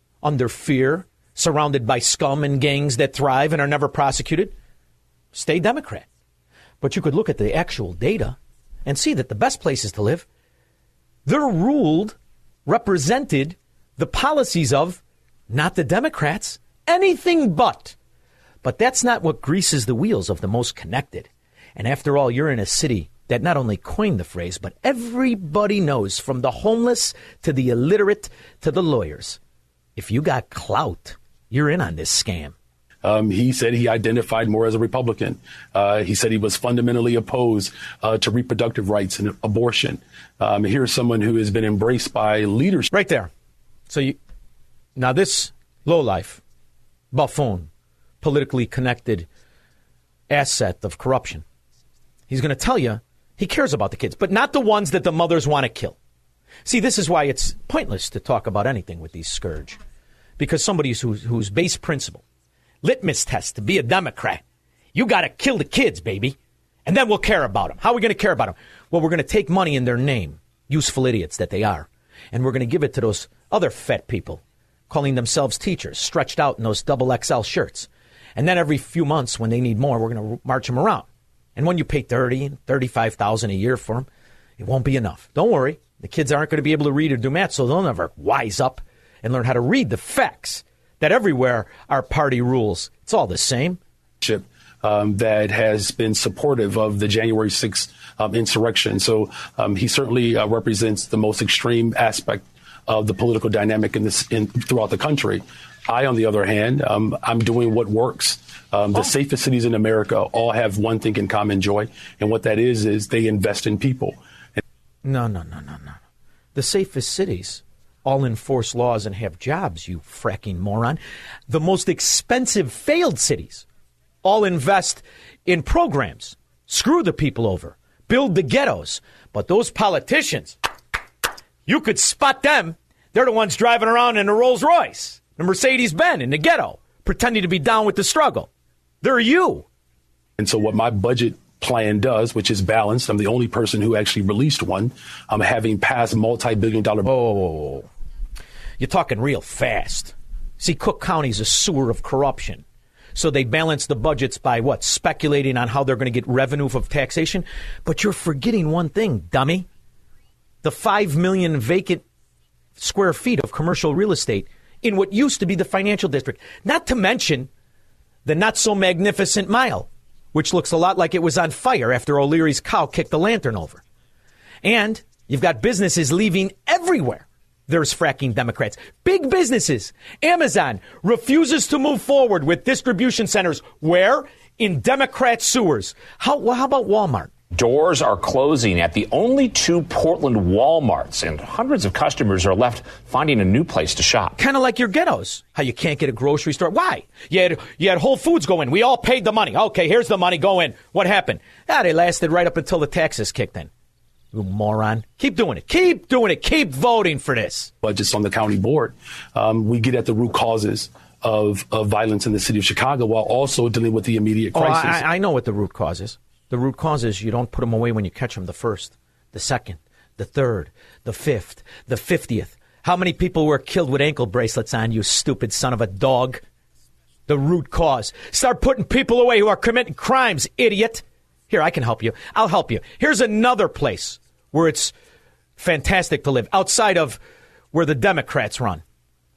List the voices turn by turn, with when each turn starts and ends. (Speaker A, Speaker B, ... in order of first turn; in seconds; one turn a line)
Speaker A: 0.2-4.5
Speaker A: 5.3-6.0
Speaker A: 6.8-10.2
Speaker A: 11.2-17.9
Speaker A: 18.6-29.4
Speaker A: 29.9-32.5
Speaker B: 33.0-42.9
Speaker A: 42.9-43.3
Speaker A: 43.9-44.2
Speaker A: 45.0-46.4
Speaker A: 47.1-47.7
Speaker A: 48.2-49.3
Speaker A: 50.3-51.4
Speaker A: 52.3-56.0
Speaker A: 56.6-59.8
Speaker A: 60.4-62.2
Speaker A: 62.8-64.4
Speaker A: 64.9-84.1
Speaker A: 84.6-93.8
Speaker B: 94.2-114.2
Speaker A: 115.0-116.0
Speaker A: 116.5-123.7
Speaker A: 124.2-130.6
Speaker A: 131.7-138.5
Speaker A: 139.0-139.6
Speaker B: 140.4-147.1
Speaker A: 147.0-147.9
Speaker A: 148.8-152.6
Speaker A: 153.1-159.7
Speaker A: 160.6-162.0
Speaker A: 162.8-167.5
Speaker A: 168.2-173.8
Speaker A: 174.6-187.3
Speaker C: 187.5-194.3
Speaker A: 194.3-203.7
Speaker A: 204.3-207.7
Speaker B: 207.8-215.0
Speaker A: 214.5-226.4
Speaker A: 227.3-234.9
Speaker A: 235.6-237.2
Speaker A: 237.7-238.8